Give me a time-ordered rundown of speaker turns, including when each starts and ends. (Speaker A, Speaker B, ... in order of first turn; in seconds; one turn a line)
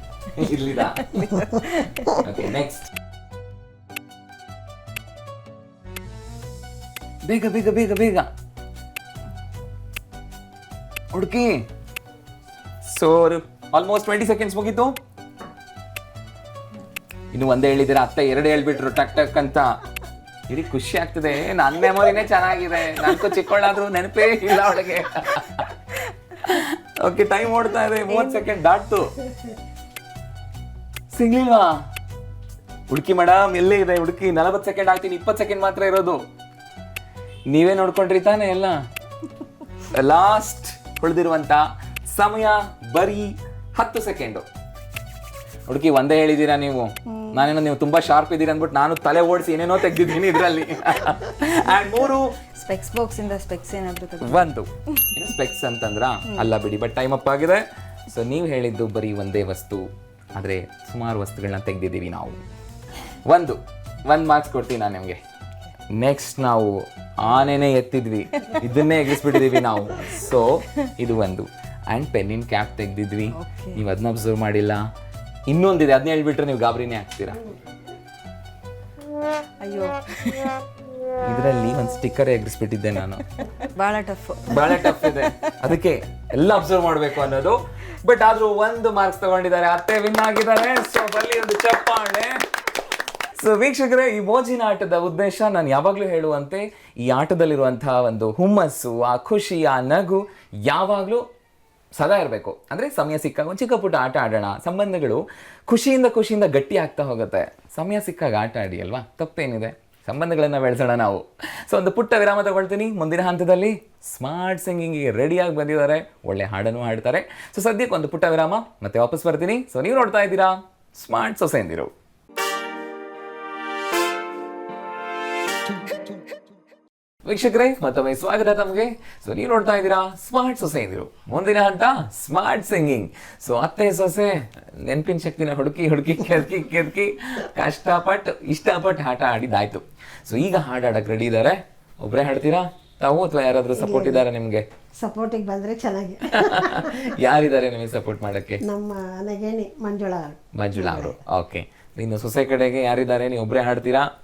Speaker A: 0.3-1.5
Speaker B: 1.0-2.2
Speaker A: 2.0-2.9
Speaker A: 7.2-8.3
Speaker A: 11.1-11.7
Speaker A: 12.8-15.0
Speaker A: 17.3-19.8
Speaker A: 20.5-25.7
Speaker A: 26.4-29.2
Speaker B: 28.1-28.4
Speaker A: 31.1-31.8
Speaker A: 32.9-36.2
Speaker A: 37.5-38.9
Speaker A: 39.9-44.5
Speaker A: 45.7-52.3
Speaker B: 47.1-47.5
Speaker B: 52.5-55.1
Speaker A: 54.2-62.4
Speaker A: 63.2-65.2
Speaker A: 65.9-74.8
Speaker B: 73.3-73.8
Speaker A: 75.5-77.4
Speaker B: 79.6-80.5
Speaker A: 81.2-83.2
Speaker B: 83.4-85.5
Speaker A: 84.5-92.4
Speaker A: 93.4-101.2
Speaker A: 102.0-121.9
Speaker A: 127.2-144.7
Speaker C: 143.8-144.2
Speaker C: 145.0-147.1
Speaker A: 146.2-148.6
Speaker C: 148.6-151.2
Speaker A: 150.5-154.1